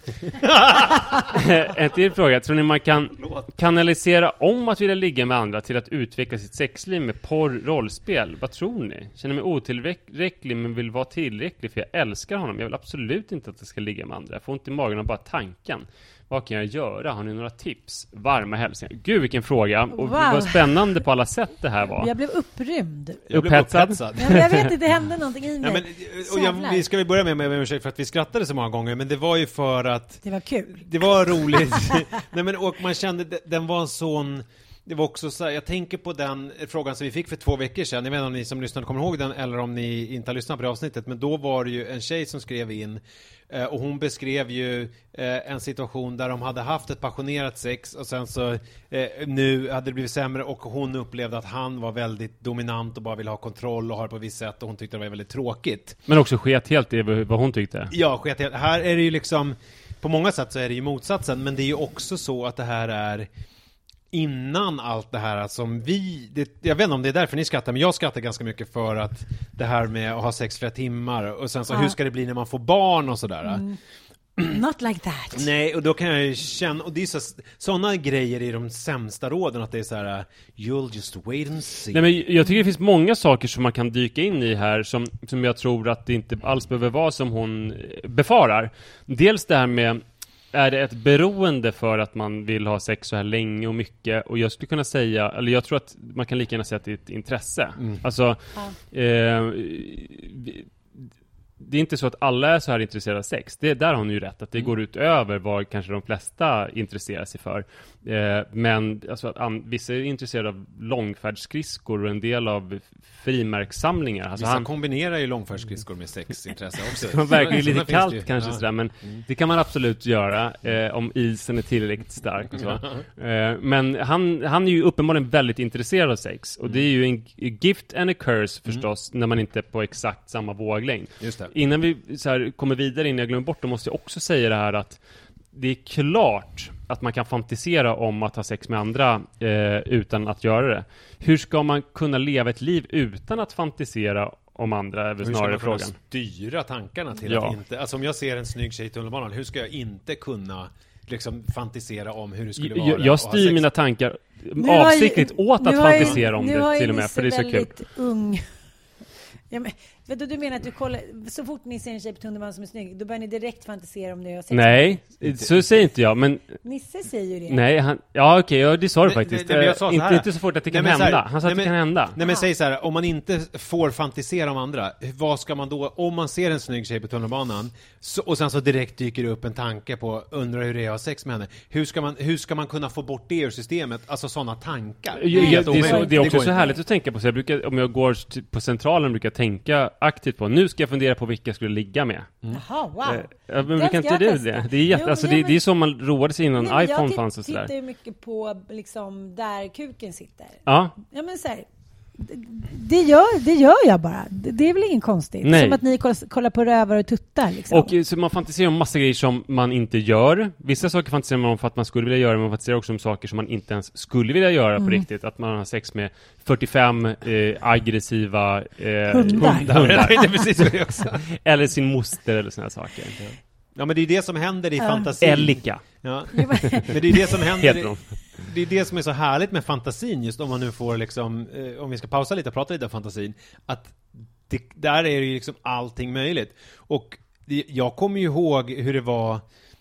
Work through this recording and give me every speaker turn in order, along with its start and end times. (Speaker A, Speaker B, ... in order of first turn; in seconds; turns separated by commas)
Speaker A: 0.6-1.2, Speaker B: 1.2-22.1, Speaker A: 3.2-3.5, Speaker C: 19.9-21.0, Speaker C: 21.9-23.3, Speaker A: 23.3-24.7, Speaker B: 23.3-24.6, Speaker C: 24.2-26.9, Speaker A: 25.6-56.0, Speaker C: 30.2-32.0, Speaker B: 56.1-57.9, Speaker A: 57.9-63.3, Speaker A: 64.1-73.7, Speaker C: 73.5-73.8, Speaker C: 74.5-75.5, Speaker A: 75.3-82.1, Speaker B: 81.9-90.0, Speaker B: 90.5-114.7, Speaker A: 114.4-119.2, Speaker B: 116.9-135.0, Speaker A: 122.6-123.0, Speaker A: 131.2-131.5, Speaker B: 135.5-146.0, Speaker A: 145.2-153.7, Speaker B: 147.2-147.6, Speaker B: 152.6-157.7, Speaker C: 154.6-158.5, Speaker A: 155.9-156.2, Speaker C: 159.5-165.0, Speaker B: 164.5-166.6, Speaker A: 165.2-165.7, Speaker C: 166.6-167.6, Speaker B: 167.5-172.2, Speaker A: 169.0-186.6, Speaker C: 172.2-172.5, Speaker B: 185.1-192.3, Speaker C: 185.3-186.8, Speaker C: 192.5-195.6, Speaker B: 193.0-197.7, Speaker C: 196.6-201.7, Speaker B: 200.7-201.0, Speaker C: 202.2-207.9, Speaker B: 205.4-205.8, Speaker B: 207.7-220.3, Speaker C: 214.8-215.1, Speaker C: 219.1-220.2, Speaker A: 219.4-221.2, Speaker B: 221.2-223.2, Speaker A: 223.2-239.4, Speaker C: 224.8-225.1, Speaker B: 225.2-226.7, Speaker C: 226.3-227.3, Speaker B: 227.6-228.5